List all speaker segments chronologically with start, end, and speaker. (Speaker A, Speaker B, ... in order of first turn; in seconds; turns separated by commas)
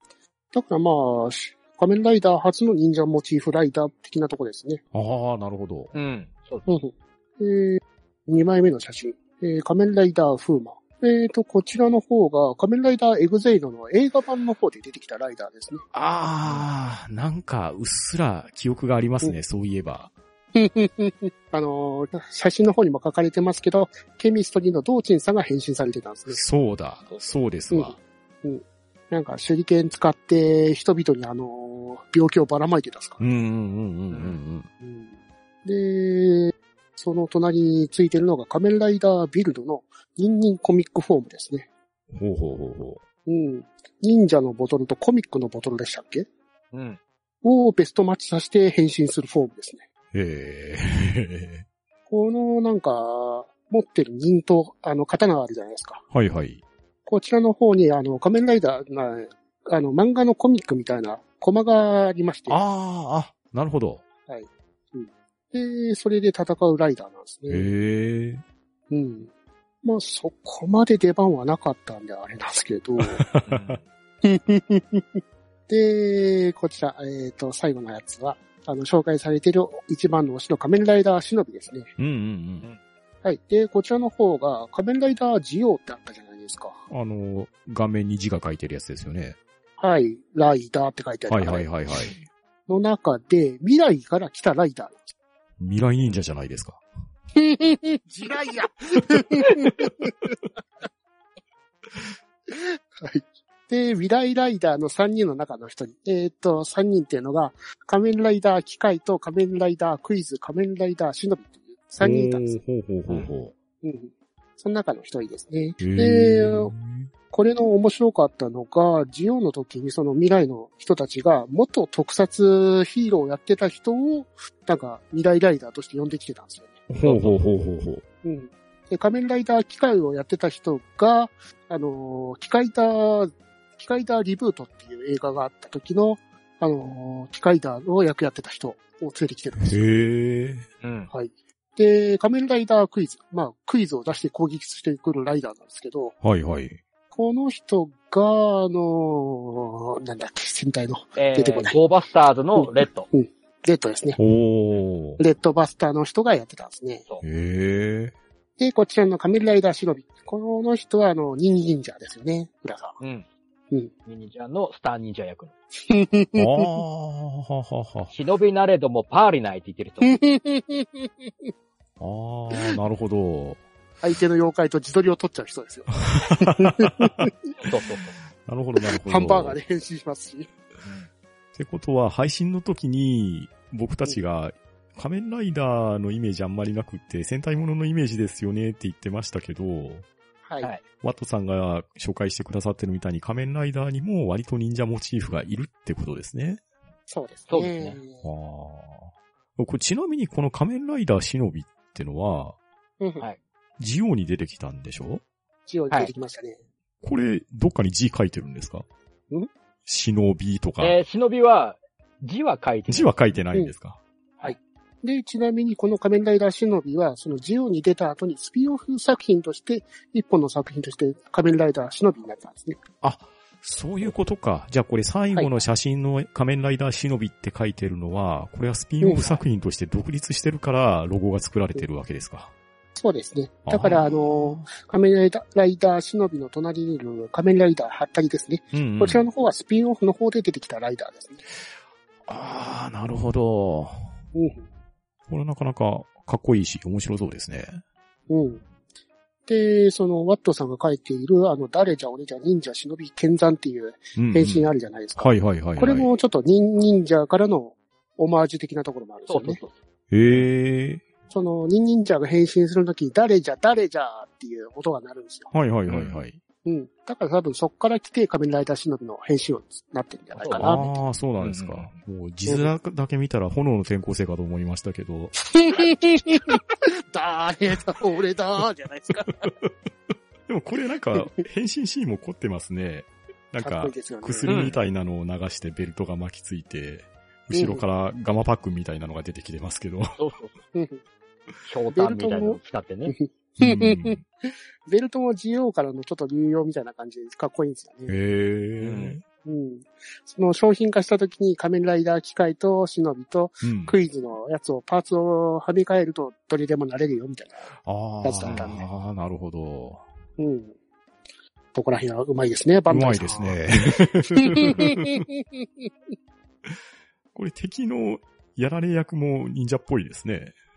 Speaker A: 0.5-4.8, Speaker B: 4.9-5.9, Speaker C: 5.9-6.7, Speaker A: 6.7-15.8, Speaker B: 15.9-20.1, Speaker A: 20.5-26.4, Speaker B: 26.3-28.0, Speaker A: 27.7-33.2, Speaker B: 33.2-34.7, Speaker C: 34.1-34.4, Speaker A: 34.8-41.7, Speaker B: 42.1-43.0, Speaker A: 43.2-46.3, Speaker C: 46.7-47.0, Speaker A: 47.4-49.8, Speaker B: 50.1-51.6, Speaker A: 52.1-56.0, Speaker B: 56.1-56.6, Speaker A: 57.0-62.6, Speaker B: 62.5-64.0, Speaker A: 64.3-67.7, Speaker B: 67.5-68.4, Speaker A: 68.9-69.3, Speaker A: 69.8-73.2, Speaker B: 73.0-73.8, Speaker C: 73.5-73.8, Speaker A: 74.2-81.9, Speaker B: 82.0-82.7, Speaker A: 83.2-86.8, Speaker B: 86.9-89.4, Speaker A: 89.8-91.7, Speaker B: 91.3-92.2, Speaker A: 92.7-95.1, Speaker B: 95.6-96.8, Speaker A: 97.3-100.3, Speaker A: 102.5-112.6, Speaker B: 112.0-113.5, Speaker A: 113.8-116.7, Speaker B: 115.8-117.1, Speaker A: 117.3-126.9, Speaker B: 126.9-128.0, Speaker C: 127.0-127.4, Speaker A: 128.2-139.8, Speaker B: 139.6-140.7, Speaker C: 140.8-141.1, Speaker A: 141.1-146.2, Speaker B: 146.2-146.8, Speaker A: 147.1-151.8, Speaker C: 151.2-153.1, Speaker A: 152.6-154.2, Speaker B: 154.2-155.2, Speaker A: 155.2-157.1, Speaker B: 157.2-158.1, Speaker A: 158.6-163.0, Speaker C: 163.0-163.2, Speaker C: 164.1-165.5, Speaker A: 165.9-166.7, Speaker B: 166.3-168.1, Speaker C: 168.1-170.2, Speaker A: 170.0-171.3, Speaker B: 172.0-173.6, Speaker A: 172.5-172.8, Speaker A: 174.0-177.5, Speaker B: 176.1-177.3, Speaker C: 177.6-178.2, Speaker B: 178.4-179.6, Speaker A: 179.1-180.5, Speaker C: 180.8-181.1, Speaker B: 181.5-190.1, Speaker A: 190.4-190.7, Speaker B: 191.0-196.6, Speaker A: 197.1-198.3, Speaker C: 197.5-198.0, Speaker B: 198.2-202.6, Speaker A: 203.0-203.2, Speaker B: 203.8-205.2, Speaker A: 205.7-206.6, Speaker B: 207.0-208.8, Speaker B: 209.8-211.0, Speaker C: 210.8-213.1, Speaker B: 212.9-214.0, Speaker A: 214.4-222.8, Speaker B: 223.0-232.5, Speaker A: 225.3-225.6, Speaker A: 229.0-229.4, Speaker A: 232.9-241.4, Speaker B: 233.7-234.7, Speaker B: 238.7-239.3, Speaker B: 242.3-244.1, Speaker A: 244.3-244.7, Speaker B: 245.3-247.8, Speaker A: 248.3-248.6, Speaker A: 249.5-259.6, Speaker B: 254.2-256.1, Speaker C: 259.3-259.7, Speaker B: 260.1-261.0, Speaker A: 261.3-265.5, Speaker B: 265.5-266.4, Speaker C: 265.9-266.2, Speaker A: 266.6-271.0, Speaker C: 270.3-270.8, Speaker B: 270.6-275.3, Speaker C: 271.4-271.9, Speaker A: 275.4-279.5, Speaker B: 280.5-290.2, Speaker A: 283.6-284.7, Speaker C: 284.5-284.8, Speaker A: 287.5-287.8, Speaker C: 290.2-290.6, Speaker A: 290.7-291.0, Speaker C: 291.6-293.1, Speaker A: 291.9-298.1, Speaker B: 293.6-294.2, Speaker B: 298.1-299.2, Speaker C: 298.8-299.2, Speaker A: 299.4-308.8, Speaker B: 303.6-303.9, Speaker B: 307.8-310.0, Speaker C: 308.4-308.8, Speaker A: 310.4-310.8, Speaker A: 311.7-313.6, Speaker B: 312.9-315.2, Speaker A: 314.4-315.9, Speaker B: 317.3-320.5